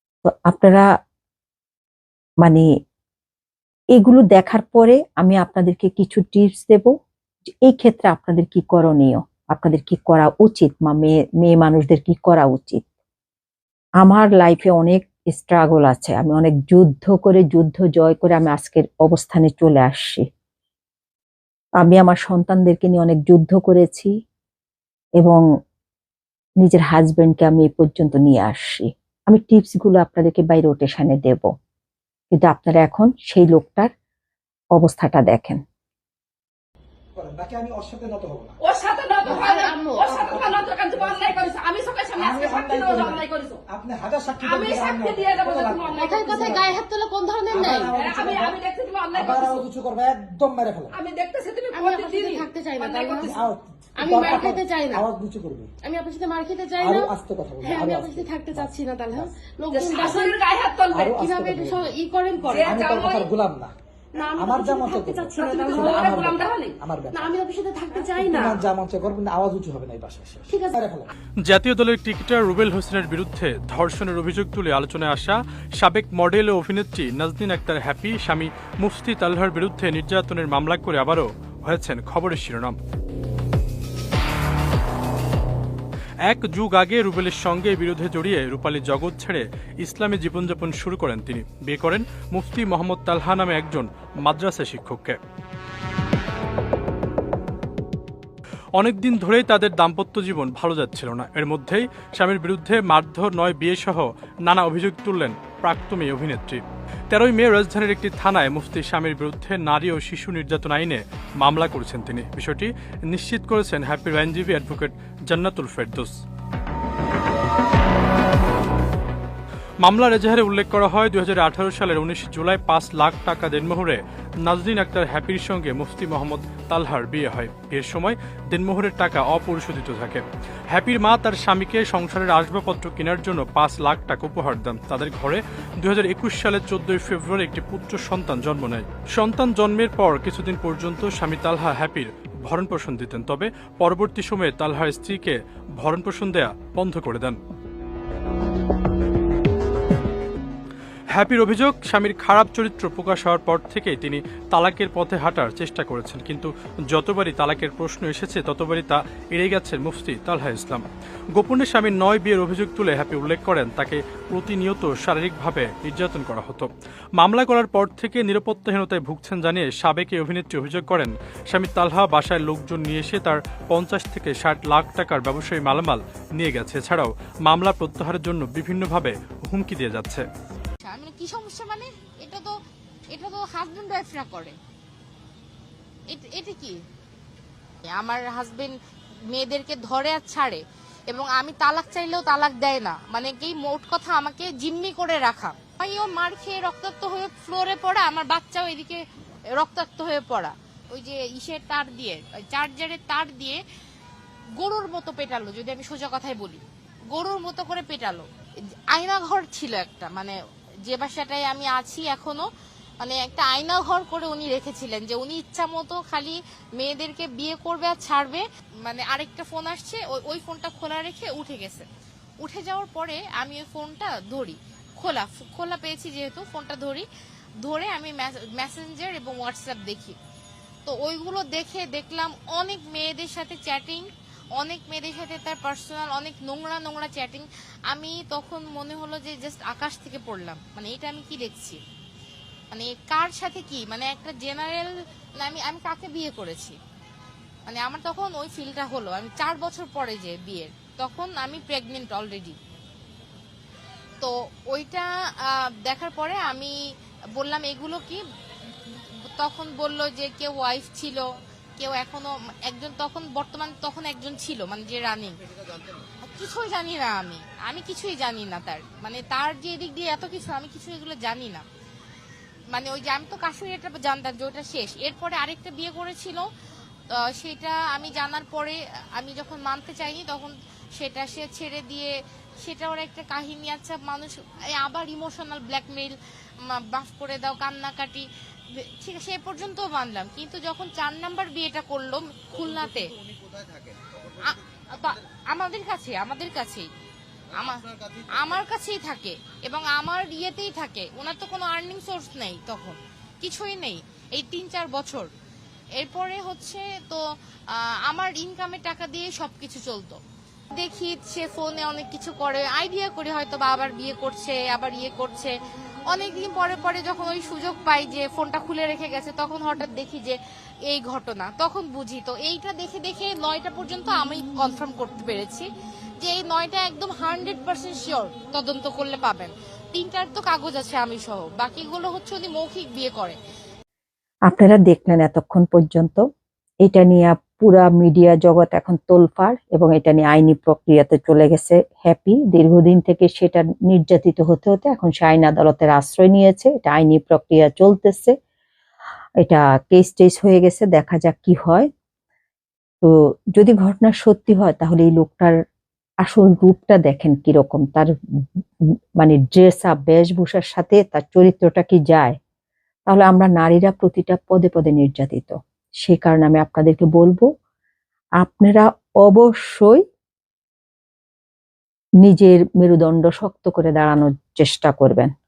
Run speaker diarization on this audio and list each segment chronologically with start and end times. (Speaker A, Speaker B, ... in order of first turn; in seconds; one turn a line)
Speaker A: 0.2-0.8
Speaker A: 3.9-6.9
Speaker A: 7.6-12.8
Speaker A: 14.0-20.3
Speaker A: 21.8-24.1
Speaker A: 26.6-31.4
Speaker A: 32.3-33.9
Speaker A: 34.8-35.6
Speaker B: 37.1-38.6
Speaker C: 38.6-43.6
Speaker B: 39.2-39.5
Speaker D: 39.3-40.5
Speaker B: 40.3-41.5
Speaker B: 42.2-46.8
Speaker C: 44.4-46.8
Speaker D: 45.9-48.0
Speaker B: 47.5-48.6
Speaker C: 47.6-49.7
Speaker B: 49.1-51.0
Speaker C: 50.9-53.3
Speaker D: 51.7-53.4
Speaker B: 53.2-55.7
Speaker D: 54.0-55.1
Speaker D: 55.8-62.9
Speaker B: 56.8-59.3
Speaker C: 59.7-61.1
Speaker B: 60.9-61.9
Speaker C: 62.4-63.3
Speaker B: 62.5-63.7
Speaker D: 64.2-66.4
Speaker B: 64.3-67.4
Speaker C: 65.5-66.8
Speaker D: 67.1-68.6
Speaker B: 68.1-71.1
Speaker D: 70.5-70.8
Speaker E: 71.5-82.8
Speaker E: 86.2-95.2
Speaker E: 98.8-116.1
Speaker E: 119.8-147.3
Speaker E: 151.1-160.8
Speaker E: 161.3-180.2
Speaker F: 180.8-182.5
Speaker F: 183.1-184.5
Speaker F: 186.1-186.7
Speaker F: 187.9-188.7
Speaker F: 189.3-199.0
Speaker F: 199.5-203.6
Speaker F: 204.6-206.6
Speaker F: 207.1-208.2
Speaker F: 208.9-210.3
Speaker F: 210.8-212.5
Speaker F: 213.0-221.8
Speaker F: 222.4-227.1
Speaker F: 227.6-230.2
Speaker F: 230.8-234.1
Speaker F: 234.6-241.8
Speaker F: 242.7-246.8
Speaker F: 247.7-252.6
Speaker F: 254.2-256.7
Speaker F: 257.4-258.2
Speaker F: 258.9-261.2
Speaker F: 261.8-265.4
Speaker F: 266.3-271.6
Speaker F: 272.7-276.4
Speaker F: 277.1-282.1
Speaker F: 282.6-288.2
Speaker F: 288.8-293.1
Speaker F: 294.4-296.9
Speaker F: 297.5-305.3
Speaker F: 306.0-307.2
Speaker F: 307.7-310.2
Speaker F: 310.8-315.5
Speaker F: 316.1-320.4
Speaker F: 320.9-325.7
Speaker F: 326.2-333.4
Speaker A: 334.5-336.2
Speaker A: 336.8-348.3
Speaker A: 349.4-351.9
Speaker A: 353.0-355.5
Speaker A: 356.2-358.1
Speaker A: 359.2-362.4
Speaker A: 363.1-367.4
Speaker A: 368.4-370.0
Speaker A: 372.2-375.3